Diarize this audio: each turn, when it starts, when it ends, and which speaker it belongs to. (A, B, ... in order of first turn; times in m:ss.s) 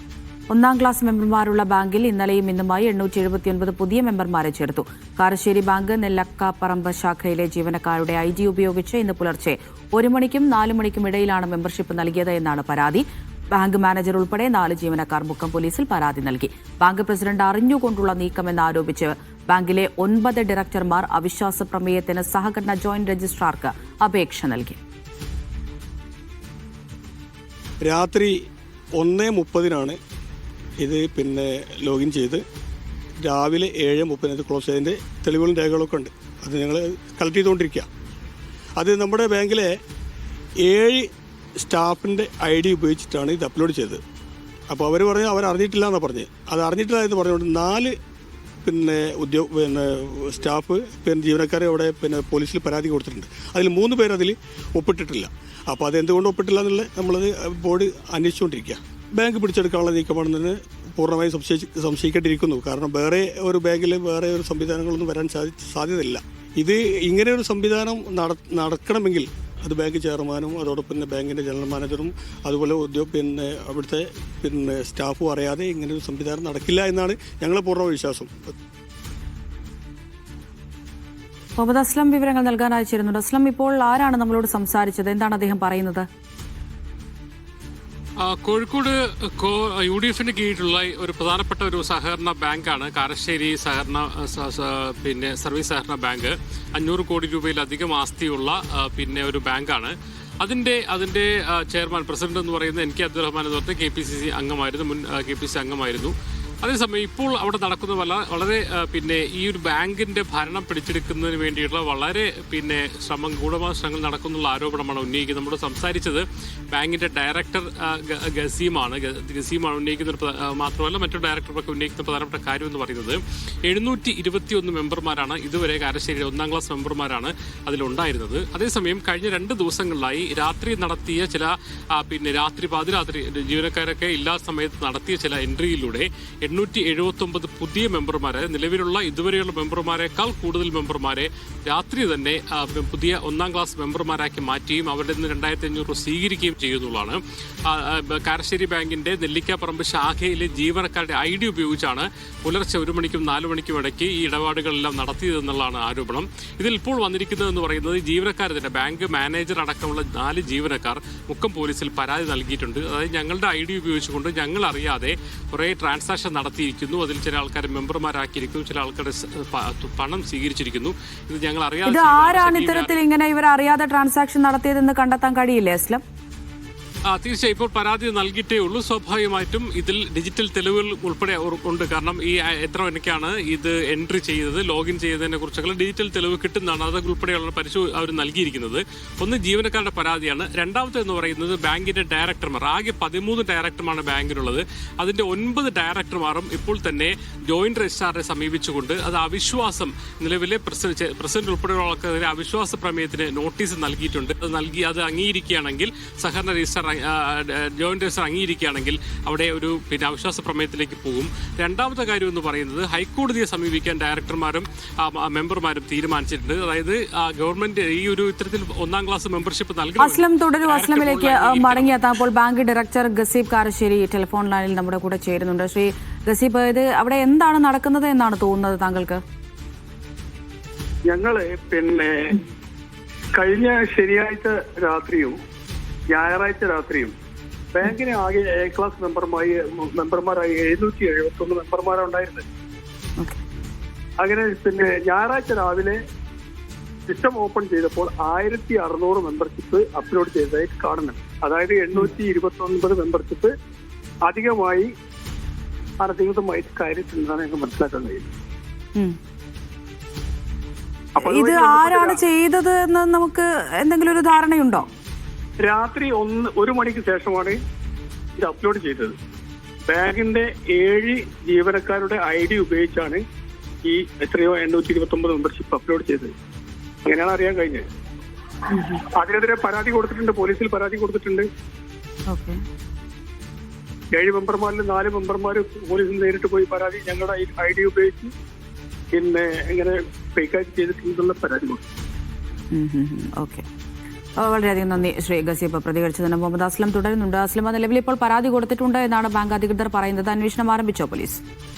0:00.5-0:24.8 A
0:27.8-0:28.3 B
0:29.0-0:30.0 B
0:30.8-0:32.4 B
0:33.2-0:37.9 B
0:38.8-0:39.7 B
0:40.6-0:41.1 B
0:41.6-0:44.0 B
0:44.7-0:47.9 B
0:48.6-1:18.5 B
1:21.6-1:26.0 A
1:28.2-2:52.9 C
2:51.8-2:56.0 A
2:57.1-3:42.0 C
3:40.0-3:49.2 A
3:51.1-3:52.4 D
3:53.4-3:55.3 D
3:56.1-3:57.1 D
3:57.7-4:02.4 D
4:04.2-4:05.9 D
4:07.1-4:13.5 D
4:14.3-4:14.8 D
4:16.0-4:18.2 D
4:21.2-4:24.9 A
4:21.2-4:22.2 D
4:25.6-4:27.5 D
4:28.4-4:29.1 D
4:29.9-4:33.2 D
4:33.9-4:36.3 D
4:37.0-4:37.8 D
4:38.8-4:41.4 D
4:42.3-4:42.6 A
4:44.1-4:48.3 D
4:49.2-4:51.8 D
4:52.7-4:53.6 A
4:54.4-5:01.4 A